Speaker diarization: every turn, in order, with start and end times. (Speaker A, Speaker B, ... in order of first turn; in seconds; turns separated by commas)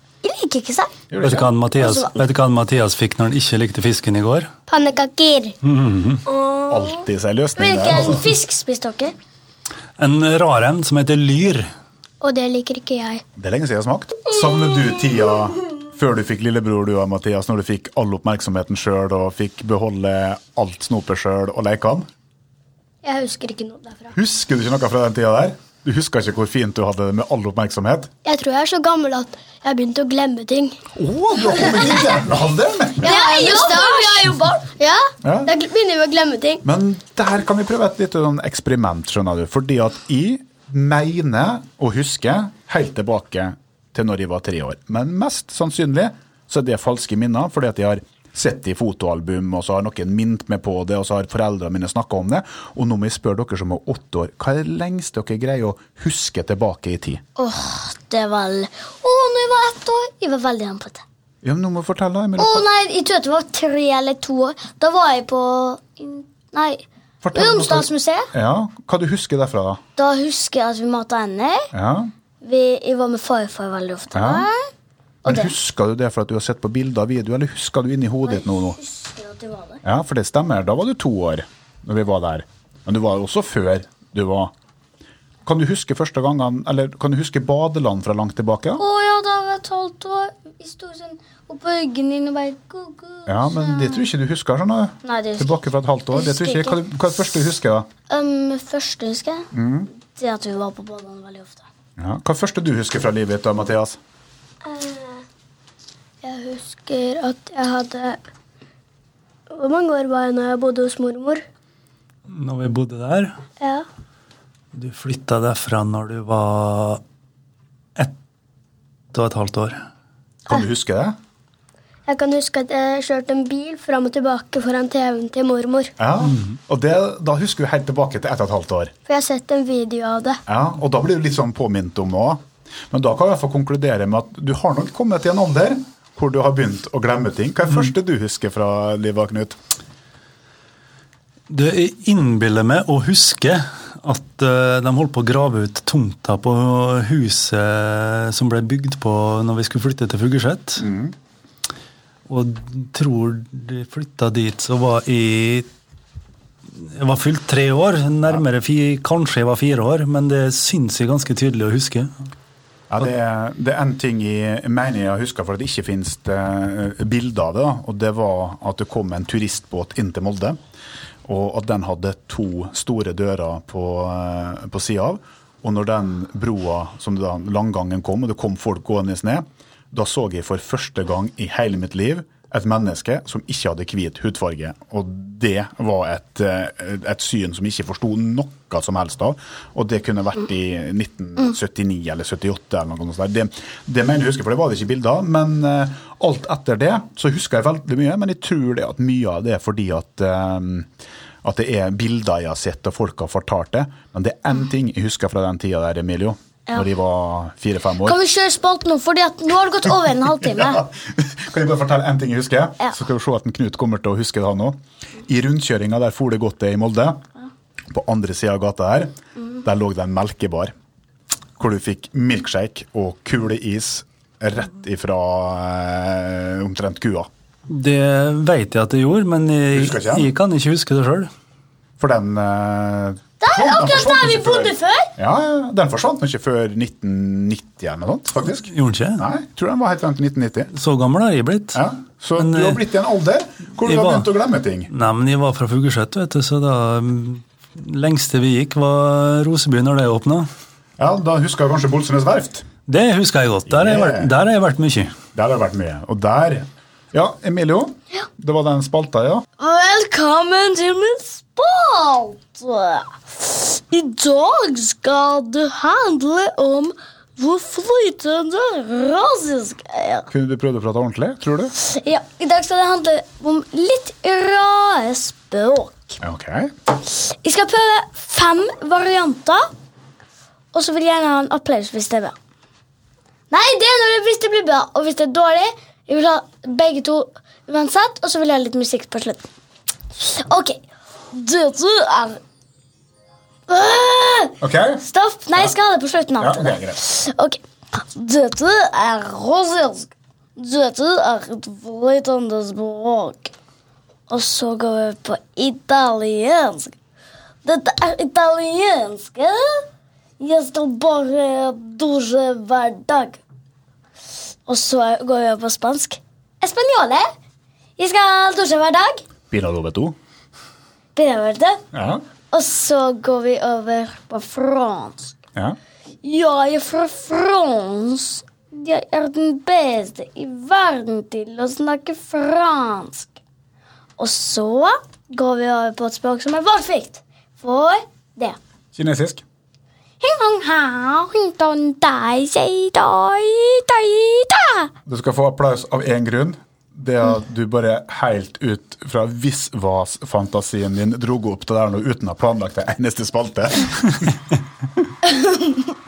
Speaker A: 0.2-0.9, Speaker B: 1.1-1.5, Speaker C: 1.2-4.5, Speaker A: 1.8-2.1, Speaker D: 4.7-5.6, Speaker C: 5.6-6.2, Speaker D: 6.3-6.8, Speaker B: 6.7-8.3, Speaker A: 7.6-9.2, Speaker C: 10.0-11.7, Speaker D: 12.2-13.2, Speaker B: 13.4-22.1, Speaker D: 23.0-24.1, Speaker B: 24.1-28.1, Speaker D: 28.2-30.8, Speaker B: 30.9-33.2, Speaker A: 33.0-34.6, Speaker D: 33.0-36.6, Speaker B: 35.2-35.5, Speaker B: 36.6-57.2, Speaker A: 57.4-61.0, Speaker B: 61.4-62.7, Speaker A: 62.4-68.3, Speaker B: 67.2-69.8, Speaker A: 70.0-71.7, Speaker B: 71.7-72.1, Speaker A: 72.4-74.7, Speaker B: 74.1-74.5, Speaker A: 75.2-75.5, Speaker B: 75.2-78.8, Speaker A: 78.3-79.8, Speaker B: 79.8-84.5, Speaker B: 85.5-88.8, Speaker A: 88.8-94.1, Speaker B: 93.3-97.9, Speaker A: 95.0-95.5, Speaker A: 96.1-96.8, Speaker A: 98.1-99.5, Speaker B: 99.5-99.9, Speaker A: 100.1-101.7, Speaker B: 102.0-104.0, Speaker D: 104.6-105.2, Speaker D: 106.2-108.2, Speaker D: 109.5-111.4, Speaker C: 112.3-113.4, Speaker D: 113.6-113.9, Speaker C: 114.7-117.0, Speaker C: 119.1-119.8, Speaker B: 120.5-121.2, Speaker D: 122.1-125.9, Speaker B: 126.0-128.9, Speaker D: 129.1-130.4, Speaker B: 130.5-139.6, Speaker C: 141.5-150.9, Speaker B: 150.8-151.2, Speaker C: 152.3-155.7, Speaker C: 156.8-162.1, Speaker B: 162.9-170.6, Speaker B: 171.2-200.9, Speaker B: 201.4-208.2, Speaker A: 208.0-210.8, Speaker B: 210.4-217.2, Speaker B: 217.9-220.7, Speaker B: 221.6-227.3, Speaker C: 227.7-231.3, Speaker B: 229.7-230.3, Speaker B: 232.0-240.7, Speaker A: 233.4-235.1, Speaker C: 238.7-239.2, Speaker C: 240.7-241.8, Speaker B: 241.7-244.9, Speaker C: 242.4-242.8, Speaker C: 243.8-244.3, Speaker C: 244.9-250.5, Speaker B: 251.0-252.7, Speaker C: 252.9-255.2, Speaker B: 253.7-254.3, Speaker B: 255.3-259.5, Speaker A: 259.6-270.3, Speaker B: 270.3-271.7, Speaker A: 271.8-276.2, Speaker B: 276.2-276.7, Speaker A: 277.1-279.7, Speaker A: 280.7-282.4, Speaker A: 283.5-289.5, Speaker A: 290.2-292.4, Speaker A: 293.7-303.5, Speaker B: 294.6-295.0, Speaker B: 296.4-297.0, Speaker A: 304.3-307.0, Speaker A: 307.6-309.9, Speaker A: 310.4-313.4, Speaker A: 314.7-317.3, Speaker A: 318.0-319.2, Speaker B: 319.5-320.2, Speaker A: 321.1-321.8, Speaker B: 321.9-322.2, Speaker A: 322.5-325.4, Speaker A: 326.2-333.4, Speaker A: 334.2-338.6, Speaker B: 338.9-339.4, Speaker A: 340.2-344.9, Speaker B: 345.1-354.5